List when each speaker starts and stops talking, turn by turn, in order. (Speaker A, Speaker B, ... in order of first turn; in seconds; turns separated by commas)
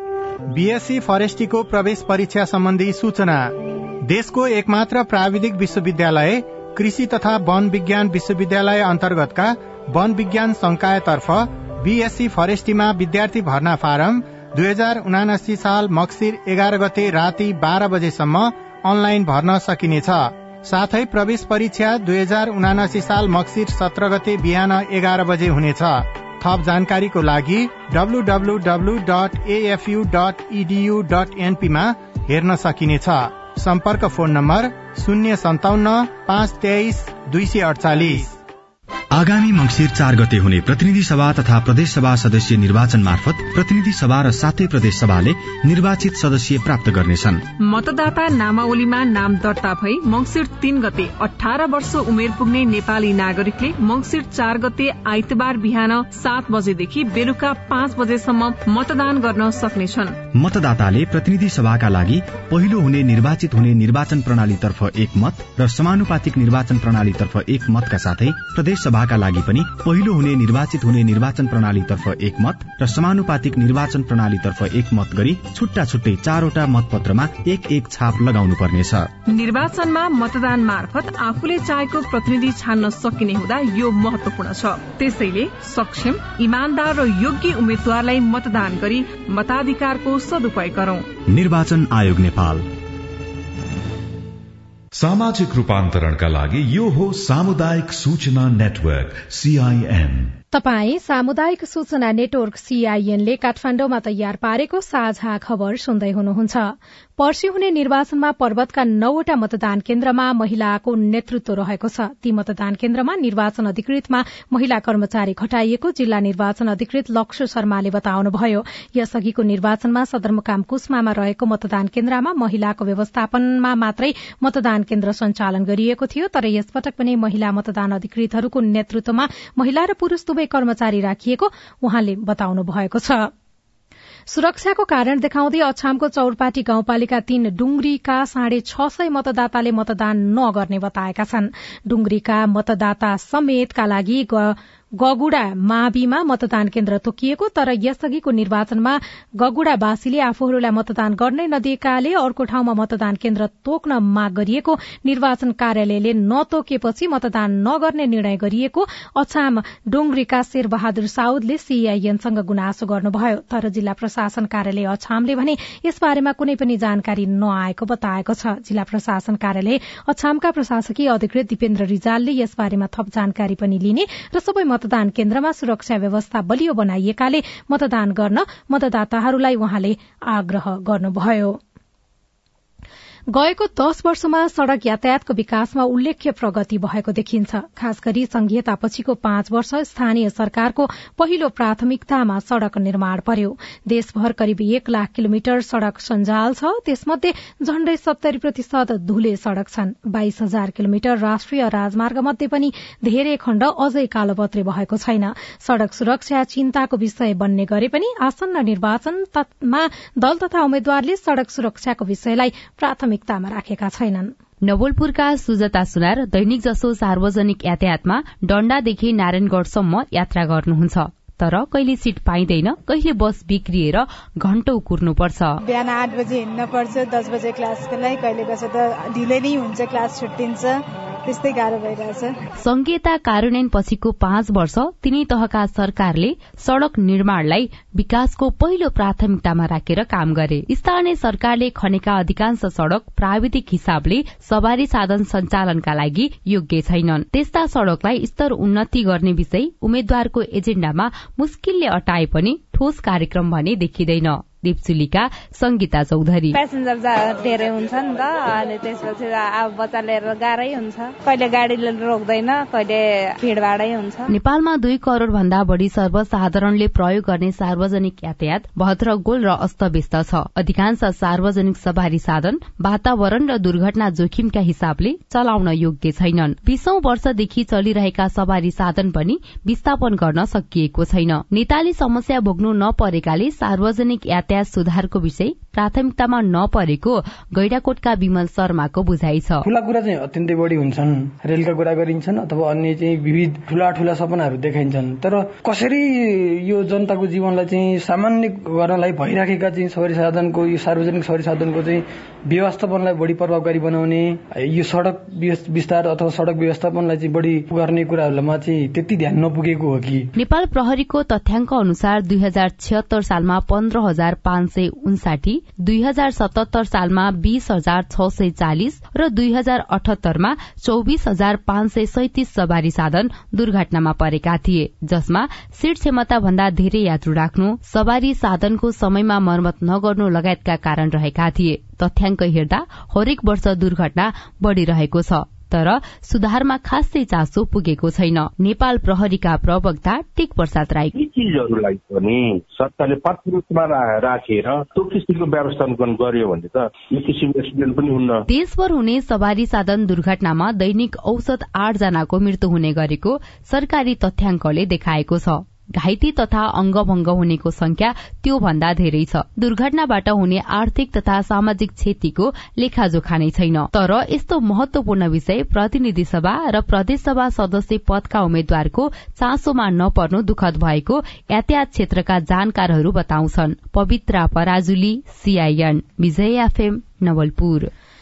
Speaker A: 0.5-38.3, Speaker B: 39.1-47.4, Speaker C: 47.6-60.2, Speaker B: 60.3-79.1, Speaker C: 79.3-91.1, Speaker B: 91.3-92.7, Speaker D: 94.9-100.3, Speaker E: 100.5-133.3, Speaker E: 134.3-181.6, Speaker E: 183.3-214.3, Speaker F: 214.6-225.6, Speaker G: 225.6-232.3, Speaker F: 232.6-256.6, Speaker H: 256.5-264.3, Speaker F: 264.3-289.6, Speaker I: 289.6-310.3, Speaker F: 310.4-341.1, Speaker J: 341.1-348.4, Speaker F: 348.5-377.9